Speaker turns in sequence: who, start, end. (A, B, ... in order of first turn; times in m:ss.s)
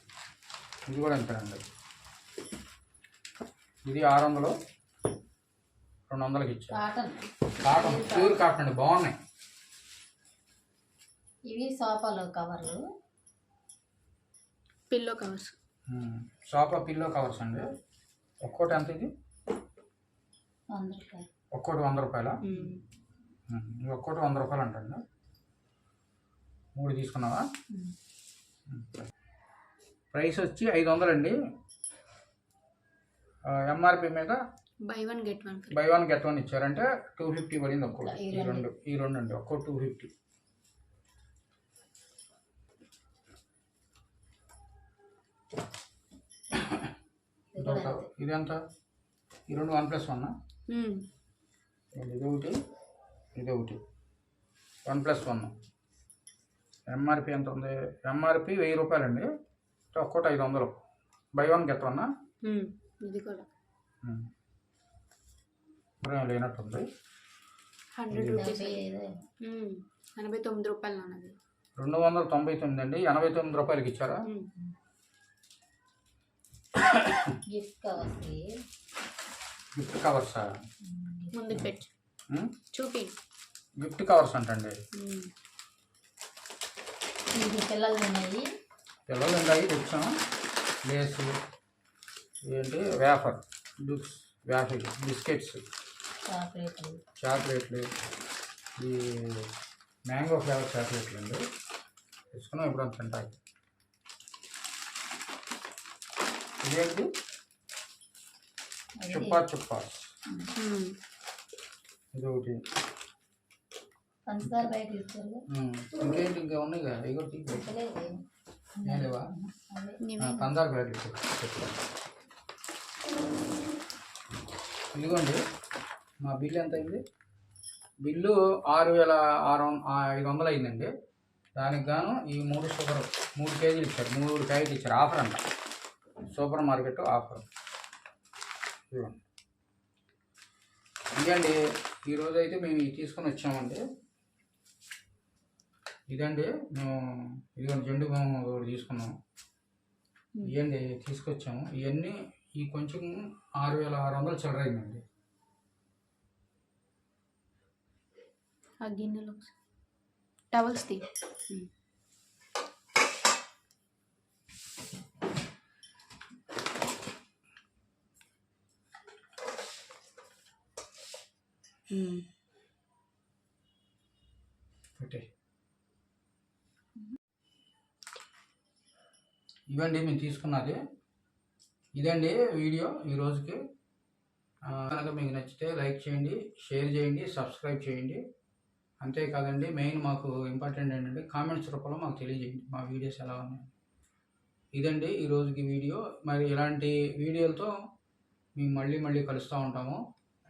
0:00.9-0:01.6 A
0:03.8-0:04.6 A
0:06.1-0:06.8 A
0:06.7-0:08.4 B
0:07.6-0:09.2 A
0:11.5-0:12.8 B
0:14.9-0:15.6 C
0:15.9-0:17.7 A
0:18.4-0:19.1 A
0:20.7-0:21.3 B
0:21.5-0:22.4 A
0:22.4-0:22.8 C
0:23.5-0:25.0 A
0:26.8-0:27.5 A
0:28.7-0:29.0 A
0:30.1-0:31.4 A
0:33.5-0:34.4 A
0:34.8-0:35.9 C
0:35.7-0:40.1 A
0:37.9-0:38.7 B
0:47.5-0:48.1 B
0:47.6-0:48.6 A
0:49.5-0:50.4 A
0:50.7-0:51.1 C
0:52.0-0:52.6 A
0:53.4-0:53.8 A
0:54.8-0:55.6 A
0:56.9-0:59.3 A
0:59.9-1:00.8 A
1:01.4-1:02.1 A
1:02.4-1:03.5 C
1:04.0-1:04.3 A
1:06.0-1:06.8 A
1:08.0-1:08.8 C
1:08.1-1:08.5 A
1:08.3-1:09.1 B
1:09.4-1:11.4 C
1:11.8-1:14.3 A
1:16.9-1:17.3 A
1:17.5-1:18.5 B
1:19.8-1:20.5 A
1:20.9-1:21.4 B
1:21.3-1:21.9 C
1:22.3-1:22.6 A
1:22.7-1:23.2 C
1:23.8-1:24.8 A
1:25.0-1:25.3 C
1:27.3-1:28.4 B
1:29.1-1:30.2 A
1:30.9-1:31.3 A
1:32.4-1:35.6 A
1:36.2-1:37.0 B
1:37.2-1:37.9 A
1:38.8-1:39.5 A
1:40.1-1:41.4 A
1:42.3-1:43.4 A
1:46.6-1:47.1 A
1:49.0-1:49.4 B
1:49.1-1:50.0 A
1:50.6-1:51.0 C
1:52.1-1:52.6 A
1:54.3-1:55.4 B
1:54.4-1:54.7 A
1:55.5-1:57.7 A
1:57.5-1:58.2 B
1:58.8-2:00.0 B
1:58.9-1:59.3 A
2:00.0-2:00.5 C
2:00.2-2:01.8 A
2:04.9-2:05.4 A
2:06.2-2:07.0 A
2:08.0-2:10.9 A
2:11.6-2:15.4 A
2:16.3-2:17.4 A
2:18.9-2:19.2 A
2:21.2-2:23.8 A
2:26.1-2:29.1 A
2:30.4-2:35.0 A
2:38.8-2:39.5 C
2:40.5-2:41.0 C
2:51.9-2:52.2 C
2:55.0-2:55.2 A
2:59.7-3:00.8 A
3:02.0-3:03.6 A
3:04.7-3:08.2 A
3:09.0-3:13.7 A
3:14.8-3:17.7 A
3:18.6-3:20.0 A